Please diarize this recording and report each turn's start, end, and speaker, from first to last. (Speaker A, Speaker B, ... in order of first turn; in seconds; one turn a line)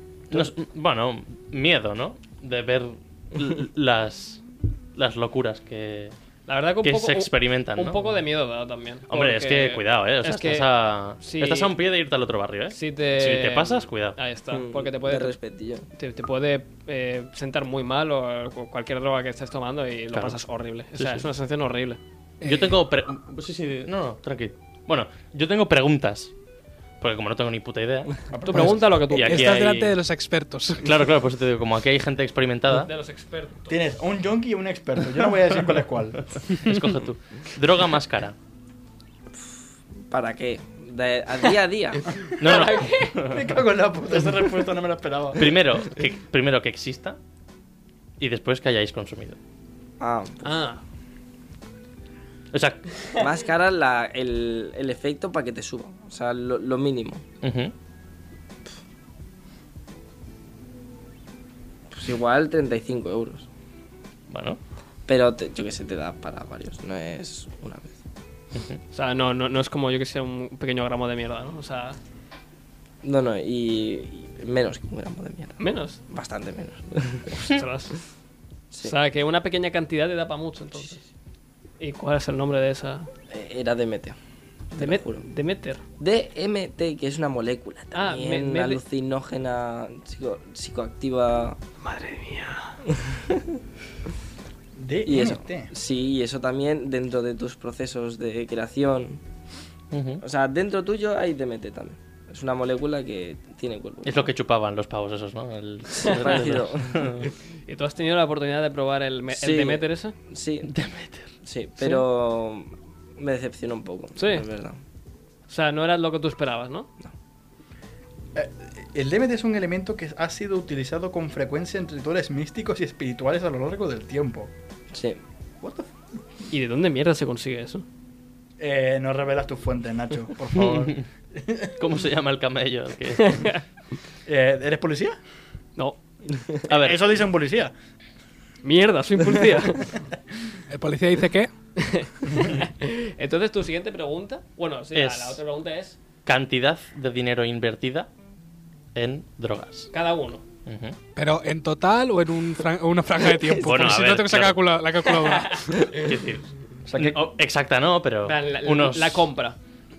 Speaker A: 0.3-4.4
Speaker A: 5.0-6.2
Speaker B: 6.5-11.7
Speaker A: 6.8-8.2
Speaker A: 9.1-14.2
Speaker B: 12.7-15.4
Speaker C: 14.5-15.9
Speaker B: 16.0-22.0
Speaker A: 20.1-20.4
Speaker A: 21.0-21.3
Speaker D: 22.4-22.8
Speaker A: 22.4-26.3
Speaker A: 27.0-30.0
Speaker E: 28.3-29.2
Speaker B: 28.5-29.6
Speaker D: 29.2-30.9
Speaker A: 30.8-32.9
Speaker B: 32.7-33.8
Speaker E: 33.7-36.2
Speaker A: 36.4-38.4
Speaker C: 40.1-42.1
Speaker A: 42.4-43.5
Speaker E: 42.4-45.6
Speaker B: 42.4-43.2
Speaker A: 45.4-47.2
Speaker A: 48.2-49.4
Speaker C: 50.0-50.5
Speaker B: 50.4-50.8
Speaker A: 52.5-52.9
Speaker C: 53.1-57.2
Speaker A: 57.4-57.7
Speaker C: 61.9-63.5
Speaker A: 64.3-64.6
Speaker C: 65.1-68.0
Speaker A: 68.5-68.8
Speaker B: 68.9-72.0
Speaker C: 73.0-77.4
Speaker B: 75.6-76.0
Speaker B: 77.3-78.0
Speaker B: 78.8-81.0
Speaker B: 81.8-83.1
Speaker C: 83.3-84.2
Speaker C: 84.8-85.2
Speaker B: 84.8-85.8
Speaker C: 86.0-91.6
Speaker B: 88.0-88.8
Speaker B: 91.8-92.8
Speaker C: 93.1-93.4
Speaker E: 94.8-95.7
Speaker C: 95.1-99.2
Speaker A: 99.9-100.2
Speaker C: 100.2-104.3
Speaker A: 104.0-107.3
Speaker C: 106.0-107.1
Speaker B: 106.0-106.4
Speaker B: 107.7-110.1
Speaker C: 109.3-110.7
Speaker A: 110.6-111.3
Speaker C: 111.4-114.8
Speaker B: 114.2-114.5
Speaker B: 115.5-116.9
Speaker E: 118.3-124.5
Speaker C: 124.9-125.2
Speaker E: 125.6-125.9
Speaker B: 126.5-127.8
Speaker E: 128.6-131.8
Speaker A: 130.5-131.0
Speaker A: 131.8-133.6
Speaker B: 133.2-133.6
Speaker E: 134.3-135.2
Speaker A: 136.7-137.1
Speaker E: 136.7-137.7
Speaker B: 138.6-140.0
Speaker D: 140.7-141.5
Speaker B: 141.8-146.0
Speaker A: 144.9-145.4
Speaker A: 146.3-148.1
Speaker A: 148.9-149.9
Speaker B: 149.9-150.4
Speaker A: 150.7-151.0
Speaker D: 151.2-155.9
Speaker A: 153.5-154.6
Speaker B: 155.2-156.0
Speaker A: 155.9-159.3
Speaker E: 156.9-157.2
Speaker B: 158.3-159.6